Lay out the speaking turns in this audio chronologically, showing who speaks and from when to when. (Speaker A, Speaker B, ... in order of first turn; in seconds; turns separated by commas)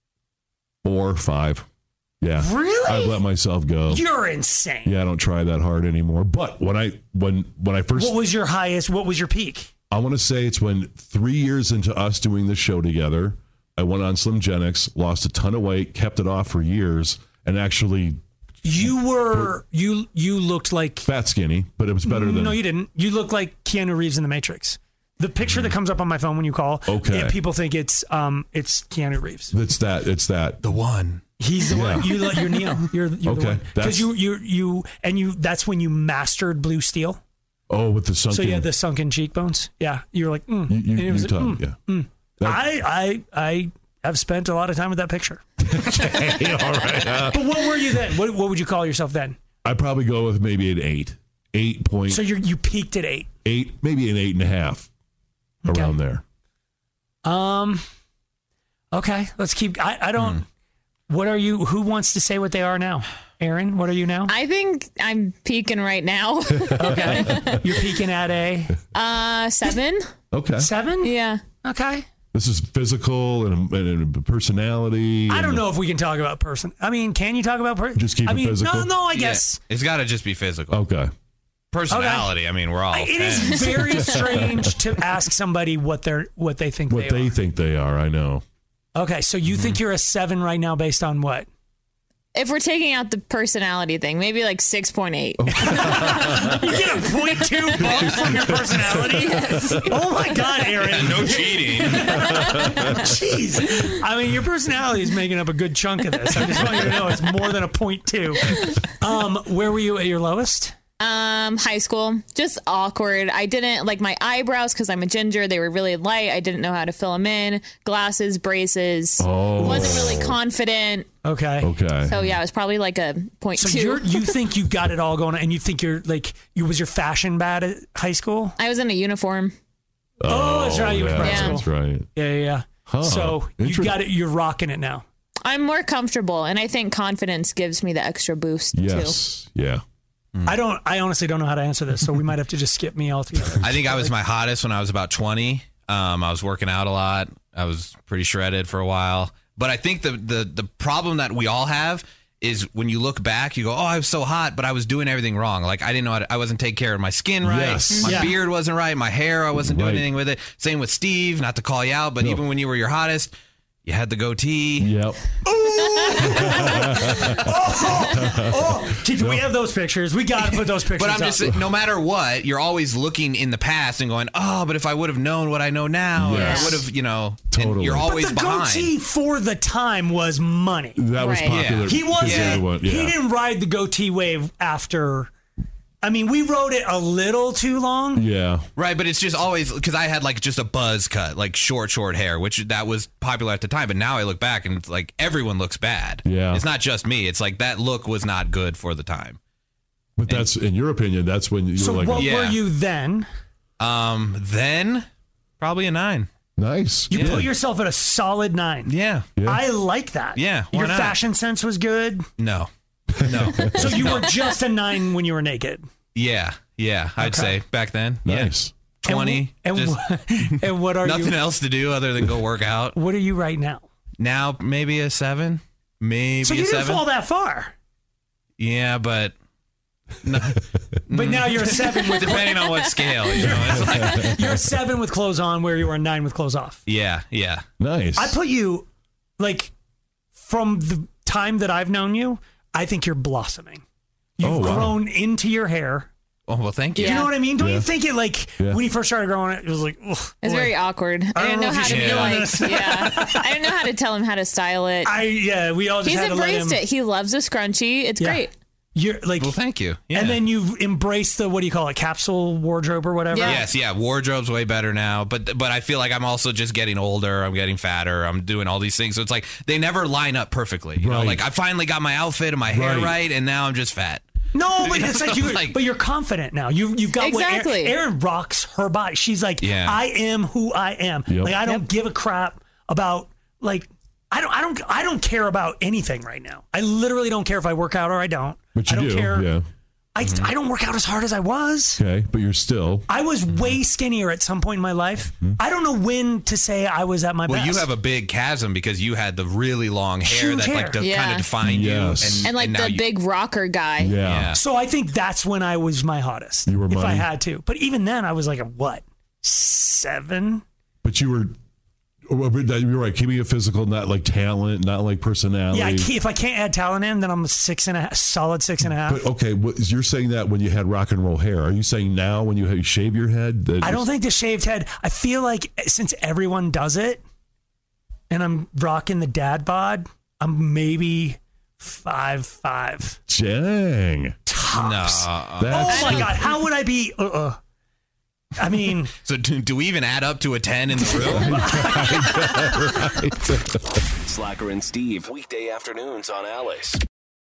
Speaker A: 0.8-1.7, Speaker A: 2.2-4.0, Speaker B: 2.4-3.2, Speaker B: 3.9-5.0, Speaker A: 4.9-8.2, Speaker B: 8.0-9.7, Speaker A: 9.9-18.2, Speaker B: 18.6-21.1, Speaker A: 21.1-22.6, Speaker B: 22.0-29.5, Speaker A: 26.9-27.4, Speaker A: 29.5-30.6, Speaker C: 30.6-31.2, Speaker B: 31.4-37.2, Speaker A: 31.7-32.4, Speaker A: 33.2-34.1, Speaker A: 37.7-38.7, Speaker B: 38.3-45.4, Speaker A: 40.7-41.8, Speaker A: 42.4-42.7, Speaker A: 45.6-48.0, Speaker B: 47.1-49.4, Speaker A: 49.6-52.2, Speaker B: 52.1-53.3, Speaker A: 53.5-54.9, Speaker B: 55.6-56.0, Speaker A: 55.7-56.2, Speaker B: 57.2-57.8, Speaker B: 58.9-60.5, Speaker B: 61.1-64.3, Speaker D: 64.3-67.6, Speaker A: 66.7-67.7, Speaker B: 66.8-68.8, Speaker D: 68.9-70.0, Speaker A: 70.3-70.7, Speaker B: 70.6-72.1, Speaker D: 71.0-71.4, Speaker A: 72.3-75.7, Speaker B: 75.3-79.6, Speaker A: 78.0-78.9, Speaker C: 79.1-80.8, Speaker A: 80.7-81.1, Speaker C: 81.7-84.1, Speaker B: 81.9-82.3, Speaker B: 82.9-87.3, Speaker D: 83.6-84.3, Speaker A: 86.9-88.4, Speaker B: 89.0-91.5, Speaker C: 89.5-89.8, Speaker D: 92.3-95.9, Speaker A: 95.4-96.6, Speaker B: 95.5-110.7, Speaker A: 97.8-99.8, Speaker D: 99.3-99.7, Speaker C: 100.8-102.1, Speaker D: 102.2-102.7, Speaker D: 111.0-121.1, Speaker A: 119.2-120.4, Speaker B: 121.2-121.7, Speaker A: 121.6-122.3, Speaker D: 122.0-124.4, Speaker B: 123.6-128.6, Speaker D: 128.6-129.5, Speaker A: 130.2-132.1, Speaker B: 130.2-135.1, Speaker D: 131.2-131.6, Speaker A: 132.9-134.0, Speaker D: 135.4-139.2, Speaker A: 138.7-139.8, Speaker C: 140.3-140.6, Speaker B: 140.5-144.1, Speaker C: 143.6-163.3, Speaker A: 157.4-158.2, Speaker D: 157.9-158.2, Speaker B: 158.0-158.4, Speaker A: 159.6-160.1, Speaker A: 162.2-162.4, Speaker C: 163.9-164.9, Speaker A: 164.8-165.2, Speaker B: 165.5-171.6, Speaker D: 165.9-166.4, Speaker A: 166.2-167.5, Speaker A: 168.1-169.5, Speaker C: 170.4-178.9, Speaker A: 176.2-176.9, Speaker D: 176.3-176.8, Speaker A: 177.5-178.1, Speaker B: 178.0-181.0, Speaker A: 181.0-183.2, Speaker D: 181.2-181.6, Speaker C: 181.5-182.6, Speaker B: 181.8-185.3, Speaker B: 186.0-188.2, Speaker A: 188.2-188.7, Speaker C: 188.8-199.4, Speaker A: 196.2-196.6, Speaker A: 200.2-202.3, Speaker B: 201.8-203.3, Speaker C: 202.1-202.6, Speaker C: 203.8-205.1, Speaker C: 205.6-206.3, Speaker A: 206.6-207.5, Speaker B: 207.1-208.9, Speaker C: 207.1-207.5, Speaker C: 208.9-209.3, Speaker A: 209.4-209.7, Speaker B: 209.4-212.3, Speaker C: 210.3-211.2, Speaker C: 212.4-212.7, Speaker A: 213.2-214.2, Speaker C: 213.2-214.3, Speaker B: 213.7-215.8, Speaker C: 216.2-223.0, Speaker B: 217.2-217.6, Speaker A: 218.2-218.7, Speaker B: 219.1-221.4, Speaker B: 222.9-223.9, Speaker C: 224.2-227.0, Speaker B: 226.4-227.7, Speaker C: 228.6-229.3, Speaker C: 230.2-234.3, Speaker B: 231.1-232.7, Speaker D: 232.2-233.6, Speaker A: 233.7-234.6, Speaker B: 233.7-236.8, Speaker C: 236.9-237.7, Speaker A: 237.8-238.4, Speaker B: 238.2-238.9, Speaker B: 239.4-239.7, Speaker B: 240.3-243.8, Speaker B: 244.4-246.1, Speaker A: 244.4-245.0, Speaker C: 246.5-247.3, Speaker D: 247.0-247.3, Speaker B: 247.0-250.8, Speaker A: 247.6-247.9, Speaker D: 250.4-255.2, Speaker B: 251.3-253.8, Speaker C: 251.8-252.7, Speaker B: 255.0-256.8, Speaker D: 256.0-258.5, Speaker B: 258.2-259.6, Speaker C: 259.4-260.4, Speaker B: 260.1-263.7, Speaker D: 263.3-263.7, Speaker C: 263.4-274.2, Speaker A: 271.0-271.4, Speaker A: 272.7-273.2, Speaker B: 274.5-289.5, Speaker C: 274.8-275.8, Speaker D: 277.2-278.0, Speaker C: 279.6-280.0, Speaker A: 281.3-281.6, Speaker A: 288.8-289.6, Speaker B: 290.1-292.0, Speaker C: 290.2-290.5, Speaker A: 292.0-293.1, Speaker B: 293.1-297.9, Speaker C: 297.5-303.1, Speaker B: 300.2-301.0, Speaker D: 301.0-301.5, Speaker A: 301.6-302.5, Speaker D: 302.4-304.2, Speaker A: 304.0-304.6, Speaker C: 304.2-304.6, Speaker B: 304.5-310.6, Speaker A: 306.7-307.3, Speaker A: 311.0-311.5, Speaker A: 312.3-316.1, Speaker B: 315.7-319.2, Speaker A: 318.9-324.1, Speaker B: 323.8-327.2, Speaker B: 328.3-333.2, Speaker A: 333.3-334.4, Speaker B: 334.5-337.6, Speaker C: 334.7-335.8, Speaker A: 335.6-336.3, Speaker D: 335.9-336.3, Speaker B: 338.6-339.1, Speaker C: 339.2-341.9, Speaker B: 341.4-342.8, Speaker A: 341.4-343.6, Speaker E: 344.3-347.0